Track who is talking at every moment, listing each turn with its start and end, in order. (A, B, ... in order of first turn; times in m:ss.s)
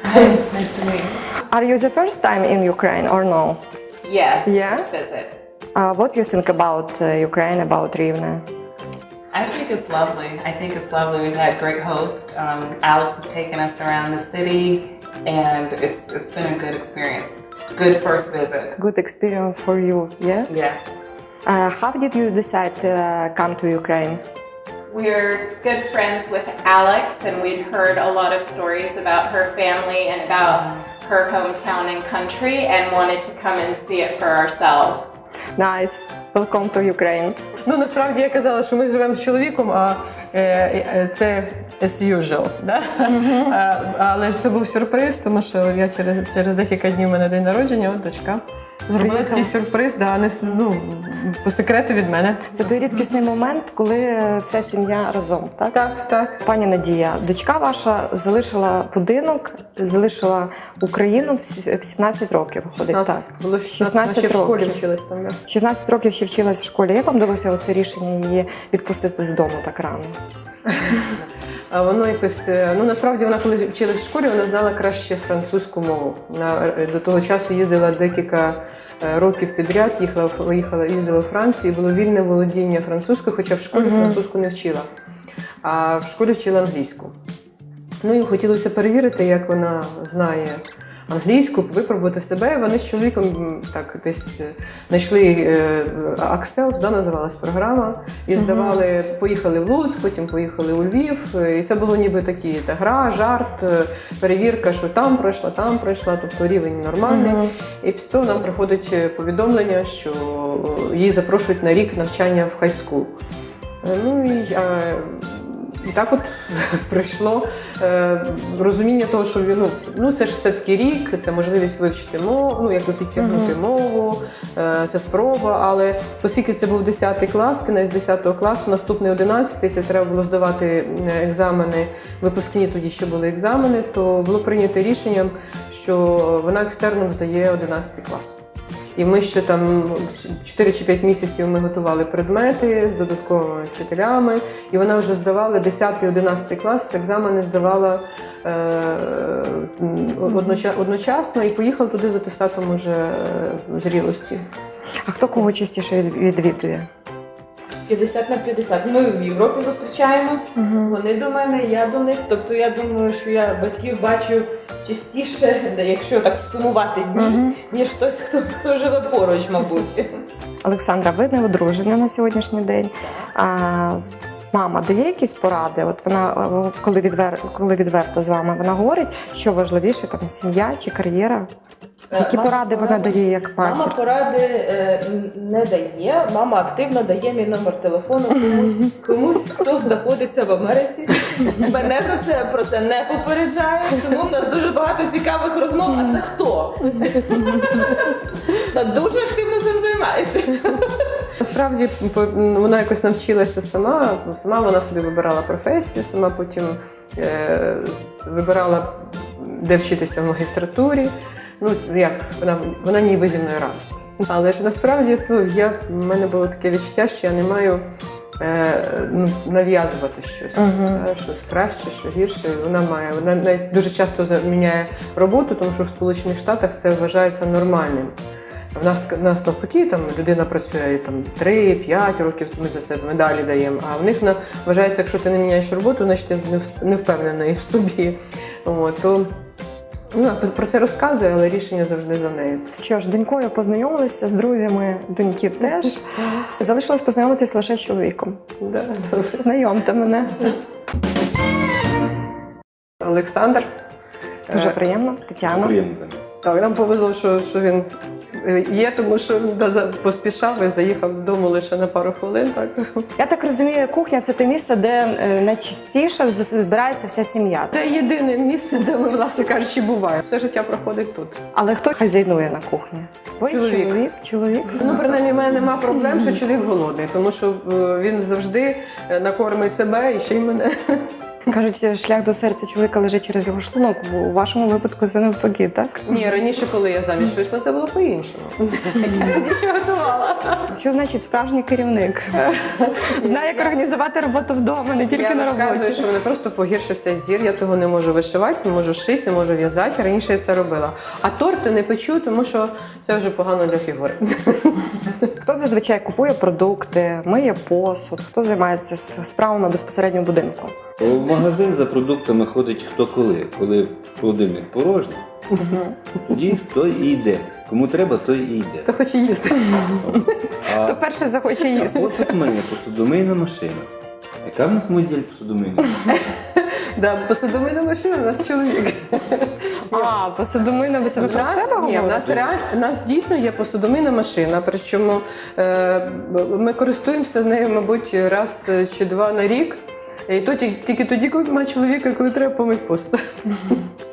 0:00.2-0:01.2 A
0:01.4-0:03.6 B
0:04.0-0:05.4 C
0:04.4-0:04.9 B
0:05.8-0:08.4 B
0:09.3-0:18.8 A
0:18.8-0:20.5 B
0:20.5-0:20.8 A
0:21.5-0:24.2 B
0:24.9-0:35.2 C
0:35.6-0:37.4 B
0:37.7-0:52.6 D
0:43.1-0:43.6 B
0:49.0-0:49.5 B
0:52.5-0:55.8 B
0:55.7-0:56.4 D
0:56.4-1:04.8 B
1:02.8-1:05.4 D
1:05.5-1:10.2 B
1:10.7-1:24.9 D
1:23.7-1:24.2 B
1:25.6-1:27.1 D
1:28.0-1:53.1 D
1:38.4-1:38.8 B
1:47.1-1:47.5 B
1:53.8-2:18.4 D
2:03.2-2:03.6 B
2:18.9-2:34.4 D
2:30.3-2:30.6 B
2:35.0-2:36.9 B
2:37.9-2:50.1 E
2:40.6-2:41.0 B
2:47.2-2:47.6 B
2:50.6-3:01.5 B
3:02.1-3:18.1 E
3:02.2-3:04.0 B
3:18.7-3:21.1 E
3:21.4-3:37.8 D
3:38.4-3:48.2 D
3:40.6-3:41.0 B
3:48.7-3:59.4 D
4:00.1-4:02.7 D
4:02.8-4:08.4 B
4:08.6-4:09.4 D
4:09.4-4:10.5 B
4:13.0-4:13.7 D
4:14.5-4:14.8 D
4:14.5-4:15.8 B
4:15.4-4:16.2 F
4:16.4-4:23.1 D
4:23.2-4:27.7 B
4:27.7-4:31.4 D
4:31.5-4:35.0 B
4:33.5-4:34.0 D
4:34.8-4:41.1 D
4:34.8-4:35.8 F
4:41.5-4:46.2 B
4:46.1-4:50.7 D
4:49.0-4:49.4 B
4:50.7-4:52.4 B
4:52.4-4:53.8 D
4:53.1-4:56.1 B
4:55.1-5:05.1 D
5:05.4-5:10.8 B
5:11.0-5:15.2 F
5:15.6-5:15.9 B
5:16.3-5:18.9 F
5:18.9-5:20.5 D
5:20.0-5:21.0 F
5:20.7-5:22.3 B
5:21.7-5:23.9 F
5:24.4-5:26.2 F
5:26.2-5:30.1 D
5:29.9-5:32.5 B
5:31.2-5:43.8 D